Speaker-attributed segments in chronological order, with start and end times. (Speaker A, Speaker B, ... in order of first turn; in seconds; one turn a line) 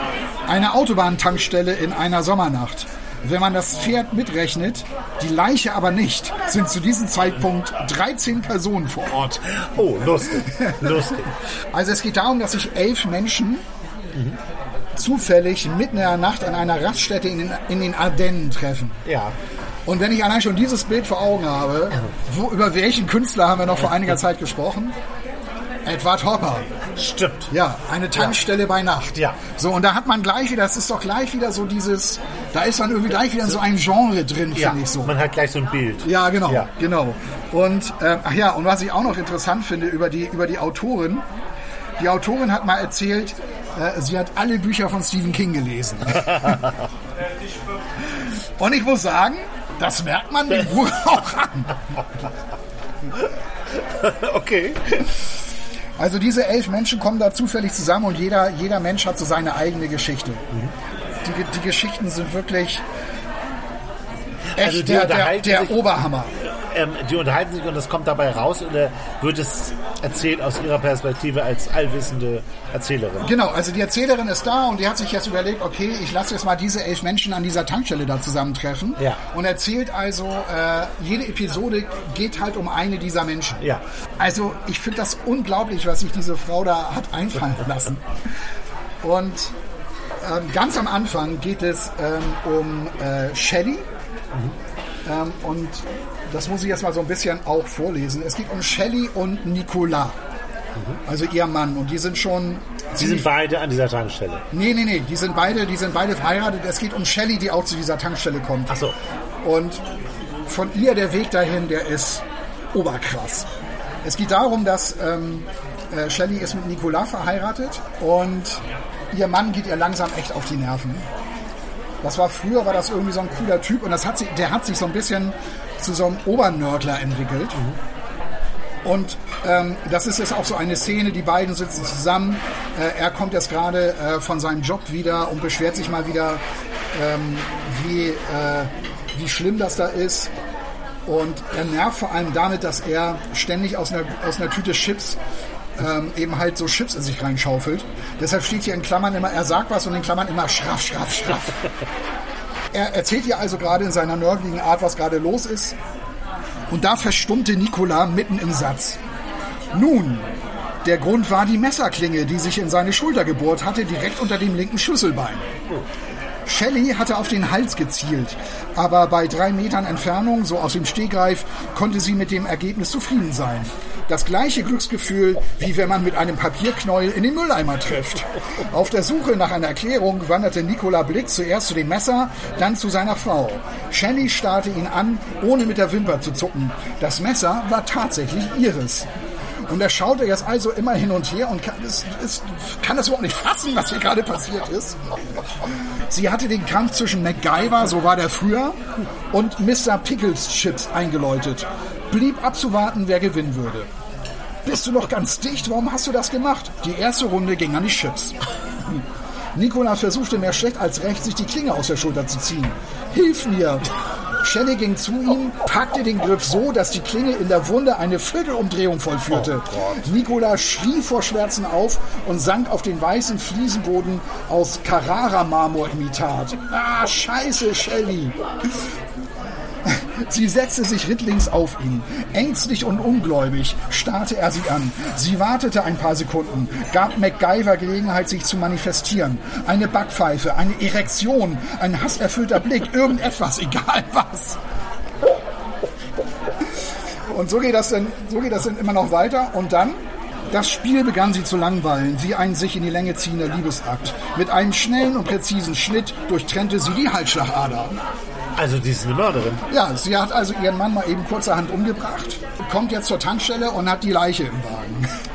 Speaker A: 0.5-9.4
Speaker B: 9.5-11.3
Speaker A: 10.1-13.6
Speaker A: 15.0-19.0
Speaker B: 19.1-19.4
Speaker A: 19.9-24.9
Speaker A: 25.9-26.7
Speaker B: 26.9-27.5
Speaker A: 27.5-35.1
Speaker B: 34.5-36.7
Speaker A: 36.0-41.2
Speaker A: 42.0-46.6
Speaker B: 46.4-46.7
Speaker A: 48.6-51.8
Speaker B: 53.7-55.1
Speaker A: 56.0-60.4
Speaker A: 61.2-62.8
Speaker B: 64.5-65.8
Speaker A: 64.6-66.3
Speaker B: 66.4-73.3
Speaker A: 73.2-83.6
Speaker A: 84.2-88.1
Speaker A: 89.0-89.5
Speaker A: 90.2-93.9
Speaker A: 95.0-100.2
Speaker A: 101.1-103.3
Speaker B: 103.0-104.4
Speaker A: 104.5-108.7
Speaker B: 108.7-108.9
Speaker A: 109.4-109.8
Speaker A: 110.5-113.5
Speaker A: 114.0-121.1
Speaker A: 122.0-127.6
Speaker A: 128.8-140.3
Speaker A: 141.1-145.2
Speaker A: 145.8-151.6
Speaker A: 152.7-155.8
Speaker A: 156.7-159.0
Speaker A: 159.7-160.3
Speaker A: 160.8-165.5
Speaker A: 166.4-189.1
Speaker A: 189.7-195.1
Speaker A: 195.6-198.8
Speaker A: 199.3-203.9
Speaker A: 204.7-209.0
Speaker A: 209.5-228.4
Speaker B: 219.3-220.0
Speaker A: 229.8-244.6
Speaker A: 247.3-250.0
Speaker A: 250.5-258.0
Speaker B: 258.6-259.6
Speaker A: 259.7-265.1